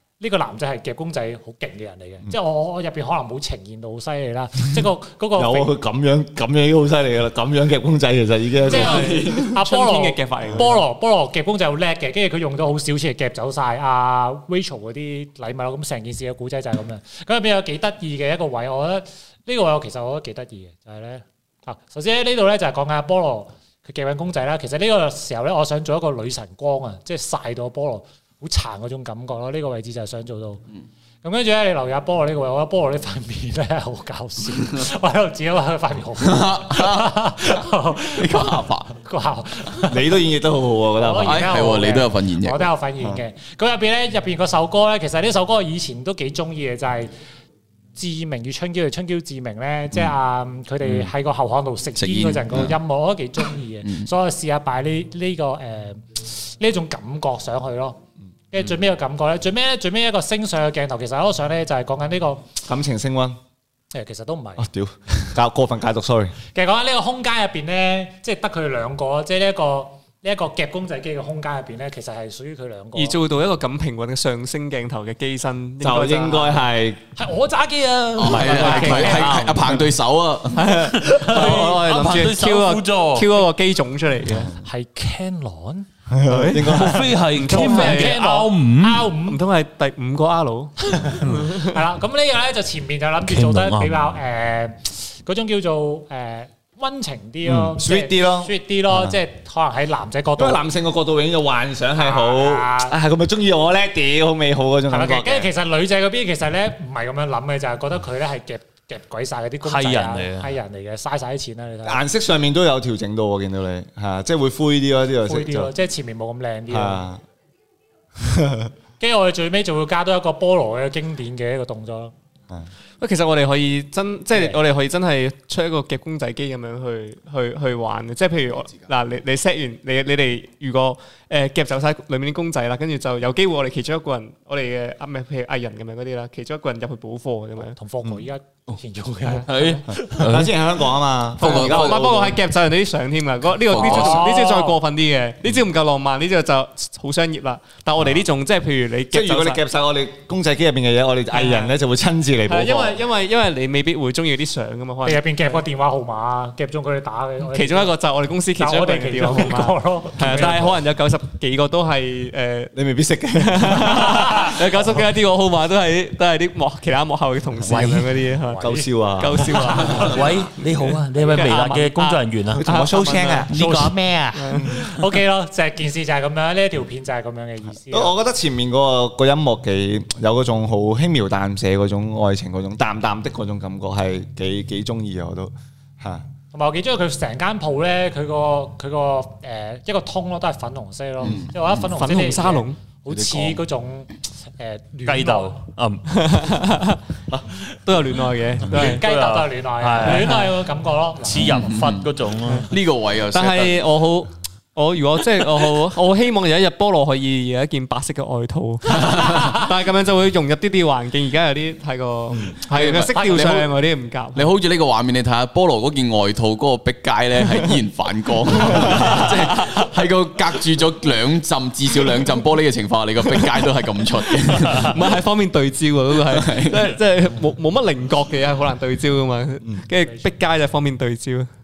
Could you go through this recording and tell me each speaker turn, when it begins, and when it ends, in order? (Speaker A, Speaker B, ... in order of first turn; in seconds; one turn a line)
Speaker A: 0.2-5.7
Speaker B: 5.4-9.6
Speaker A: 8.7-30.6
Speaker C: 8.7-10.8
Speaker A: 31.2-40.1
Speaker D: 36.2-37.2
Speaker D: 38.1-38.9
Speaker B: 39.8-41.5
Speaker A: 41.0-47.1
Speaker D: 41.2-42.7
Speaker A: 47.9-58.0
Speaker D: 52.0-52.8
Speaker A: 58.5-62.6
Speaker B: 62.6-63.4
Speaker A: 63.9-64.7
Speaker B: 64.6-66.3
Speaker A: 66.5-73.2
Speaker C: 72.9-76.6
Speaker B: 75.8-77.0
Speaker A: 77.2-79.7
Speaker D: 78.2-80.8
Speaker C: 78.5-79.2
Speaker B: 78.7-79.8
Speaker C: 80.5-84.5
Speaker E: 80.9-83.4
Speaker B: 84.3-84.6
Speaker A: 84.6-85.9
Speaker B: 86.1-87.1
Speaker C: 86.3-88.2
Speaker A: 86.6-89.4
Speaker E: 86.6-89.1
Speaker C: 89.2-91.7
Speaker A: 90.8-100.6
Speaker E: 93.2-94.2
Speaker B: 97.4-99.2
Speaker B: 100.4-105.5
Speaker A: 102.0-103.0
Speaker A: 104.9-112.0
Speaker E: 109.6-110.6
Speaker B: 111.8-115.7
Speaker A: 115.2-117.0
Speaker B: 116.7-117.2
Speaker B: 118.2-118.7
Speaker A: 119.0-122.1
Speaker C: 123.0-137.8
Speaker A: 137.7-140.4
Speaker E: 139.4-140.5
Speaker B: 140.0-142.3
Speaker C: 141.4-149.6
Speaker D: 141.4-142.0
Speaker D: 143.7-144.3
Speaker A: 143.8-144.8
Speaker B: 149.1-153.0
Speaker C: 151.3-151.7
Speaker C: 152.5-155.6
Speaker A: 155.0-157.9
Speaker C: 157.4-162.7
Speaker A: 158.6-160.7
Speaker B: 160.2-160.8
Speaker B: 162.7-164.4
Speaker C: 163.4-170.3
Speaker B: 167.6-167.9
Speaker E: 167.7-168.0
Speaker A: 168.5-168.8
Speaker B: 168.5-170.0
Speaker A: 169.7-170.2
Speaker E: 169.9-172.6
Speaker C: 171.2-173.5
Speaker B: 172.5-173.9
Speaker E: 173.4-174.6
Speaker C: 174.3-174.8
Speaker B: 174.5-174.9
Speaker A: 174.9-178.1
Speaker B: 177.8-186.3
Speaker A: 186.5-195.5
Speaker D: 191.2-191.6
Speaker C: 191.9-192.8
Speaker B: 193.1-193.6
Speaker E: 195.0-196.5
Speaker C: 196.1-197.0
Speaker C: 197.8-199.0
Speaker E: 198.7-200.5
Speaker A: 198.7-201.7
Speaker C: 200.0-200.5
Speaker E: 201.2-202.7
Speaker D: 201.5-202.1
Speaker D: 202.7-203.9
Speaker C: 203.3-214.5
Speaker D: 212.6-213.7
Speaker D: 214.3-225.1
Speaker C: 218.7-219.8
Speaker C: 224.3-231.5
Speaker D: 226.2-226.9
Speaker A: 229.9-230.3